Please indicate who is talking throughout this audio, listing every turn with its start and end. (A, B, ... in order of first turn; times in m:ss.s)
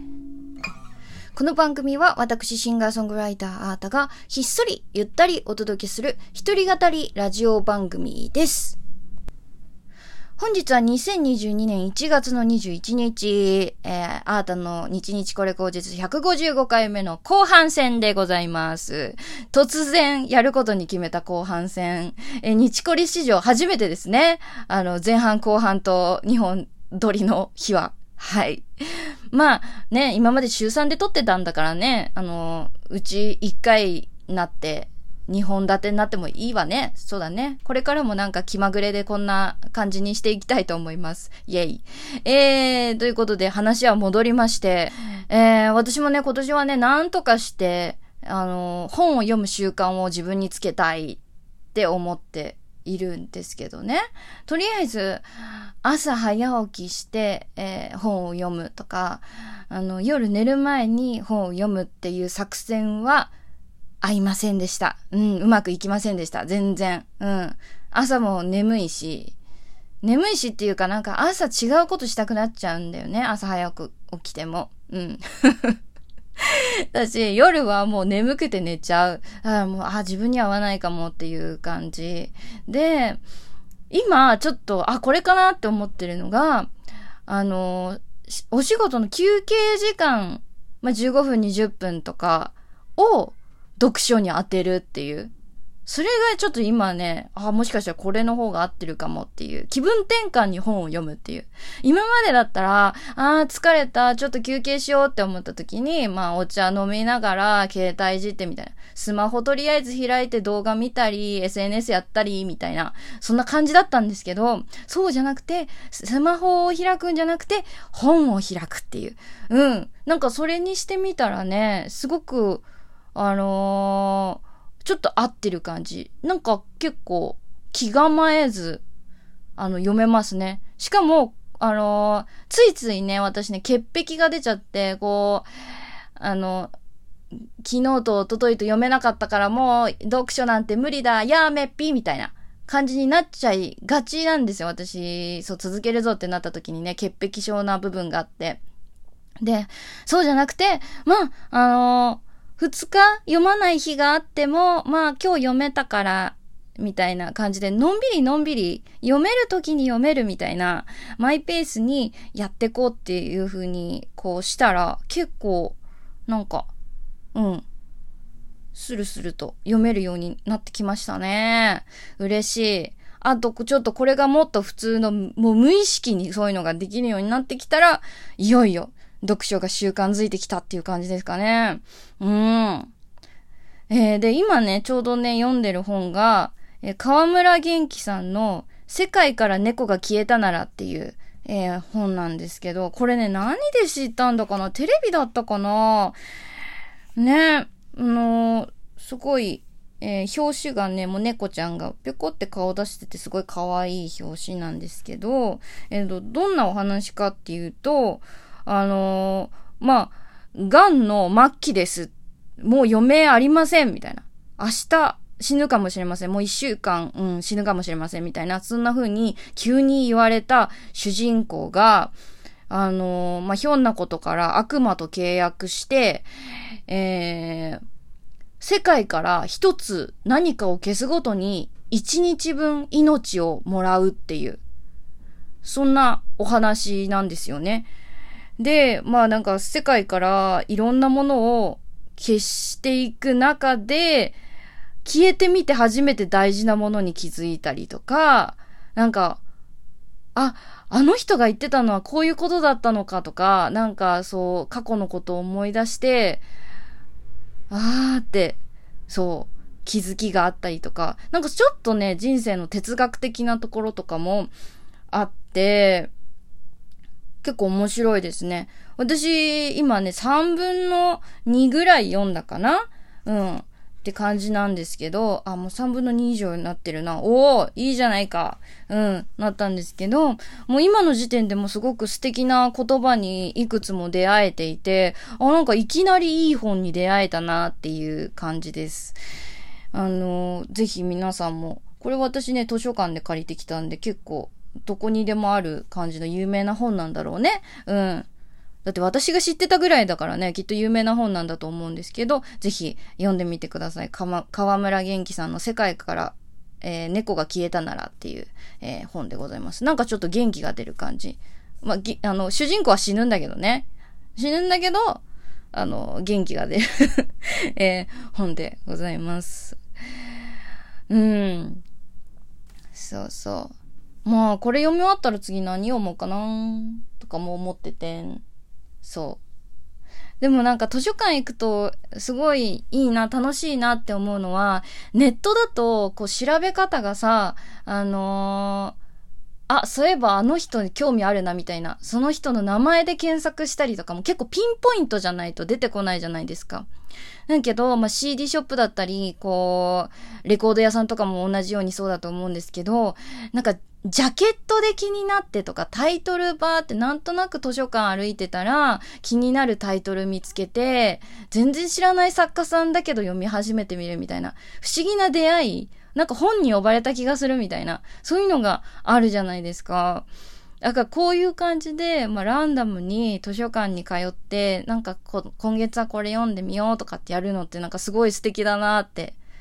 0:01.4-0:08.8 A
0:10.4-0:28.7 A
0:29.3-0:51.2 A
0:51.7-0:55.2 A
0:55.8-1:03.3 A
1:04.0-1:09.4 A
1:10.0-1:15.8 A
1:16.4-1:23.2 A
1:23.9-1:26.7 A
1:27.3-1:35.3 A
1:35.9-2:02.6 A
2:03.2-2:08.8 A
2:09.6-2:15.5 A
2:16.2-2:16.7 A
2:17.6-2:28.6 A
2:29.4-2:46.7 A
2:47.3-2:47.6 A
2:48.7-3:02.9 A
3:03.9-3:16.2 A
3:17.2-3:42.1 A
3:42.7-3:46.3 A
3:46.9-3:47.8 A
3:48.6-3:54.6 A
3:55.6-3:57.9 A
3:58.6-4:04.4 A
4:05.0-4:09.4 A
4:10.4-4:16.4 A
4:17.7-4:24.5 A
4:25.1-4:26.1 A
4:27.4-4:49.2 A
4:49.9-4:58.3 A
4:58.8-5:15.2 A
5:15.7-5:19.8 A
5:21.1-5:21.8 A
5:22.9-5:23.7 A
5:24.2-5:28.4 A
5:29.0-5:29.4 A
5:30.4-5:39.0 A
5:39.7-5:46.9 A
5:47.5-6:10.3 A
6:10.8-6:19.4 A